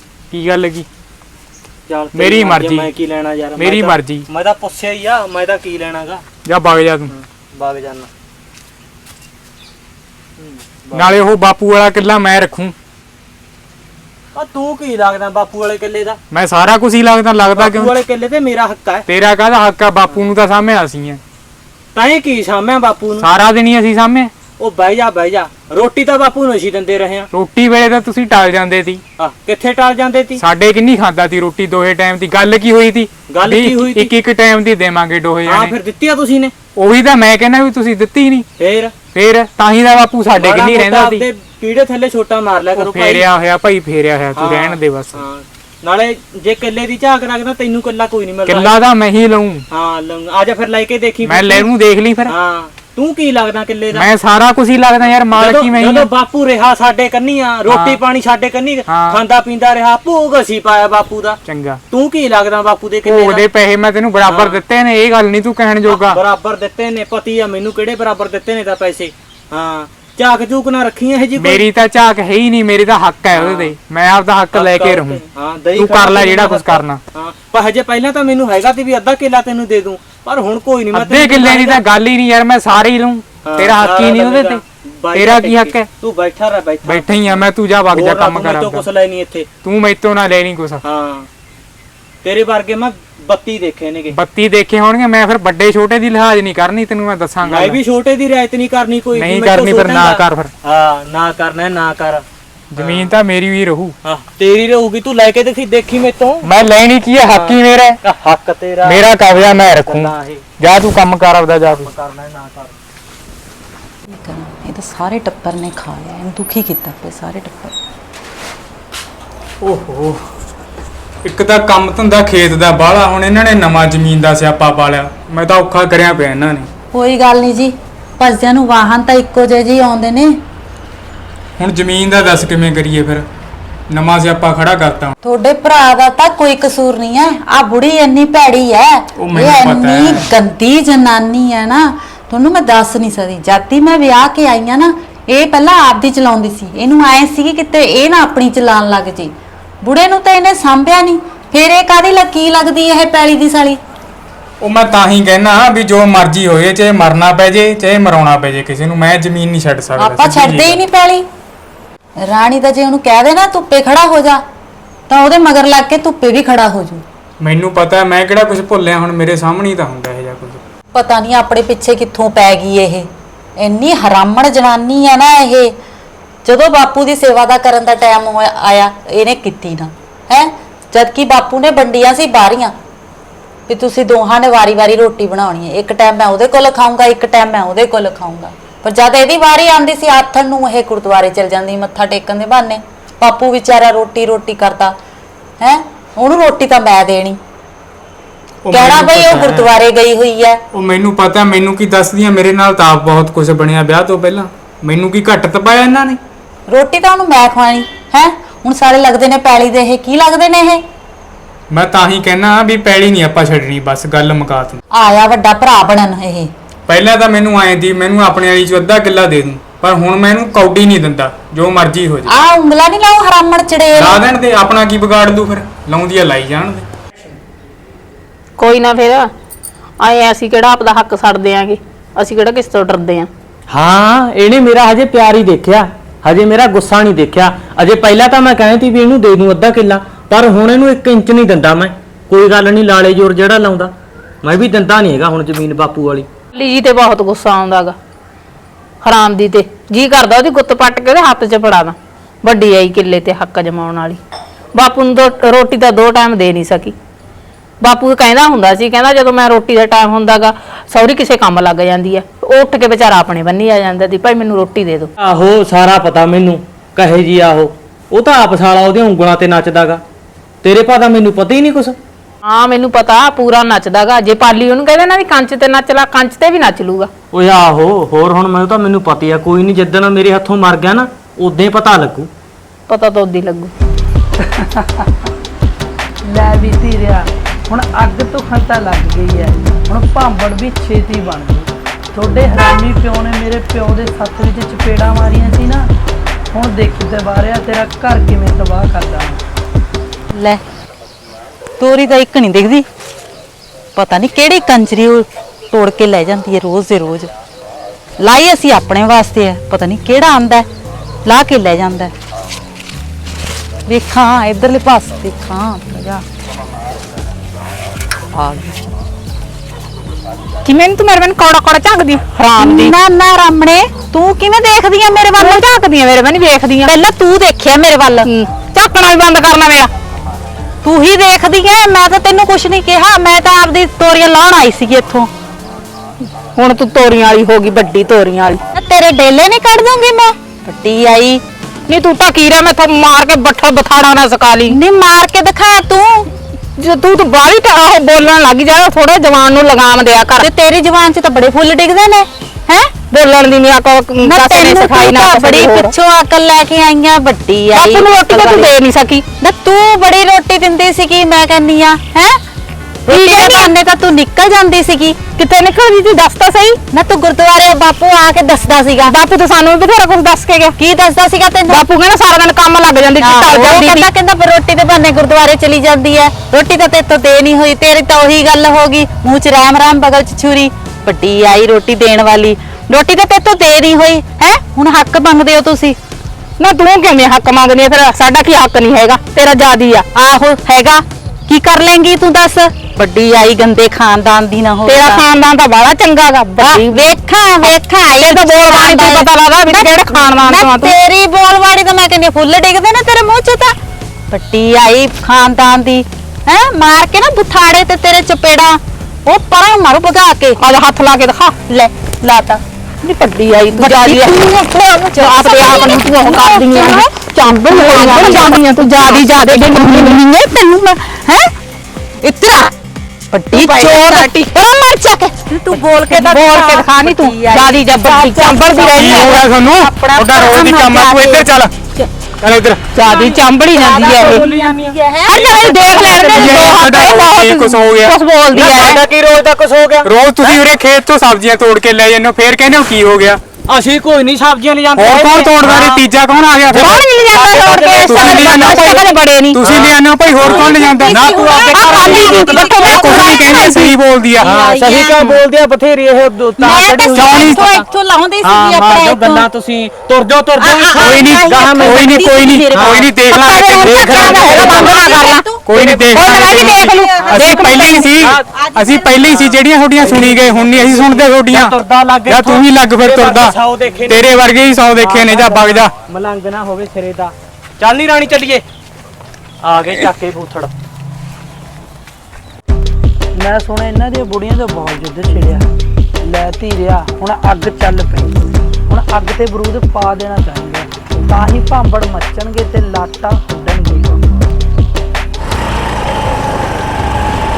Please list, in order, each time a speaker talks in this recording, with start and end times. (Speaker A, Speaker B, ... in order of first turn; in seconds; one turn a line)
Speaker A: 0.3-0.9
Speaker B: 1.9-6.2
Speaker A: 2.1-2.9
Speaker A: 3.6-4.3
Speaker A: 6.5-7.1
Speaker B: 7.1-8.1
Speaker B: 10.4-11.2
Speaker A: 10.9-12.7
Speaker B: 14.3-16.2
Speaker A: 16.3-17.9
Speaker B: 17.6-19.1
Speaker A: 19.1-21.2
Speaker B: 21.9-23.3
Speaker A: 23.2-24.3
Speaker B: 24.6-27.3
Speaker A: 27.3-29.0
Speaker B: 29.2-30.4
Speaker A: 30.4-35.8
Speaker B: 33.3-34.1
Speaker B: 35.5-36.5
Speaker A: 36.8-38.5
Speaker B: 38.6-38.9
Speaker A: 39.1-41.2
Speaker B: 40.3-43.3
Speaker A: 42.8-45.2
Speaker B: 44.4-48.8
Speaker A: 48.5-49.6
Speaker B: 49.7-51.7
Speaker A: 51.2-52.3
Speaker B: 52.3-54.1
Speaker A: 53.9-56.1
Speaker B: 55.3-61.4
Speaker A: 57.7-58.0
Speaker A: 58.9-59.2
Speaker A: 61.5-61.8
Speaker B: 61.9-63.4
Speaker A: 63.1-66.2
Speaker B: 64.2-64.6
Speaker B: 65.9-71.7
Speaker A: 71.4-75.2
Speaker B: 73.3-73.7
Speaker B: 74.5-81.8
Speaker A: 75.8-77.0
Speaker A: 80.9-84.6
Speaker B: 83.5-89.5
Speaker A: 85.1-85.9
Speaker A: 86.9-88.8
Speaker A: 89.6-90.8
Speaker B: 90.8-91.3
Speaker B: 92.2-94.2
Speaker A: 94.1-97.8
Speaker B: 97.5-102.2
Speaker A: 99.2-100.5
Speaker A: 102.7-103.9
Speaker B: 102.8-103.1
Speaker B: 104.0-106.5
Speaker A: 106.4-108.0
Speaker B: 107.3-110.4
Speaker A: 108.8-111.9
Speaker B: 111.7-112.7
Speaker C: 114.1-117.8
Speaker A: 119.6-120.2
Speaker A: 121.2-126.7
Speaker C: 126.9-130.3
Speaker A: 131.6-133.2
Speaker A: 133.9-135.1
Speaker C: 135.2-153.8
Speaker A: 139.2-140.3
Speaker A: 154.6-160.8
Speaker C: 160.0-161.2
Speaker C: 162.2-164.4
Speaker C: 165.1-167.0
Speaker A: 167.4-170.6
Speaker C: 170.9-175.7
Speaker C: 176.4-182.7
Speaker C: 183.7-194.9
Speaker C: 195.6-197.4
Speaker A: 198.7-199.7
Speaker C: 198.7-200.6
Speaker A: 200.7-206.2
Speaker C: 206.7-210.8
Speaker A: 211.7-214.8
Speaker C: 214.9-216.5
Speaker A: 216.9-222.4
Speaker C: 222.3-224.2
Speaker A: 223.9-226.8
Speaker D: 228.6-229.3
Speaker D: 230.0-233.3
Speaker B: 233.7-246.3
Speaker D: 246.6-247.9
Speaker D: 249.0-254.2
Speaker D: 254.7-256.9
Speaker D: 257.8-265.1
Speaker B: 265.2-270.0
Speaker B: 270.6-272.0
Speaker D: 272.4-277.1
Speaker B: 277.3-282.3
Speaker D: 282.9-283.7
Speaker E: 284.4-285.1
Speaker E: 286.2-295.9
Speaker E: 296.5-299.4
Speaker C: 300.3-300.6
Speaker C: 301.8-302.9
Speaker C: 304.0-307.3
Speaker C: 308.2-310.7
Speaker C: 311.2-312.1
Speaker C: 313.9-316.2
Speaker C: 318.3-318.9
Speaker D: 320.6-322.9
Speaker C: 322.6-325.7
Speaker D: 325.4-326.9
Speaker C: 326.8-328.3
Speaker D: 328.3-329.9
Speaker C: 330.8-335.3
Speaker D: 336.6-338.6
Speaker C: 338.7-341.4
Speaker D: 341.9-344.8
Speaker C: 344.7-346.3
Speaker D: 346.8-350.5
Speaker C: 350.4-352.9
Speaker D: 353.1-355.9
Speaker C: 354.2-358.7
Speaker D: 357.7-359.2
Speaker C: 359.4-362.4
Speaker C: 363.1-365.3
Speaker D: 363.1-363.7
Speaker D: 365.4-366.8
Speaker C: 366.9-369.2
Speaker D: 369.1-370.7
Speaker C: 370.8-371.9
Speaker D: 371.7-374.1
Speaker C: 373.2-386.0
Speaker D: 386.6-390.1
Speaker C: 390.1-395.2
Speaker D: 394.9-396.9
Speaker C: 396.6-403.8
Speaker D: 398.2-400.9
Speaker C: 404.3-410.6
Speaker D: 410.6-411.6
Speaker C: 411.7-412.6
Speaker D: 413.0-414.4
Speaker C: 413.7-421.5
Speaker D: 415.2-420.2
Speaker C: 422.2-422.7
Speaker C: 423.3-431.5
Speaker D: 423.5-424.5
Speaker D: 426.1-429.4
Speaker A: 428.9-431.7
Speaker A: 432.4-432.9
Speaker C: 432.9-439.0
Speaker D: 433.0-434.4
Speaker B: 434.2-436.5
Speaker D: 435.5-437.5
Speaker A: 436.3-438.1
Speaker B: 438.5-440.6
Speaker A: 440.1-443.4
Speaker B: 443.7-446.1
Speaker A: 445.0-447.0
Speaker B: 446.7-449.0
Speaker C: 446.9-449.1
Speaker D: 447.8-449.6
Speaker A: 448.0-448.8
Speaker A: 449.5-451.2
Speaker B: 449.6-453.3
Speaker C: 450.4-455.4
Speaker D: 452.1-453.1
Speaker A: 452.9-454.5
Speaker B: 454.4-457.9
Speaker C: 456.6-459.5
Speaker A: 457.1-457.7
Speaker B: 458.4-463.1
Speaker C: 460.6-469.5
Speaker A: 461.0-465.0
Speaker B: 463.8-465.8
Speaker A: 465.6-471.7
Speaker B: 467.2-468.4
Speaker B: 469.3-474.4
Speaker A: 472.3-473.6
Speaker A: 474.1-475.9
Speaker B: 475.0-478.6
Speaker B: 479.6-480.7
Speaker E: 483.4-485.6
Speaker E: 486.2-494.4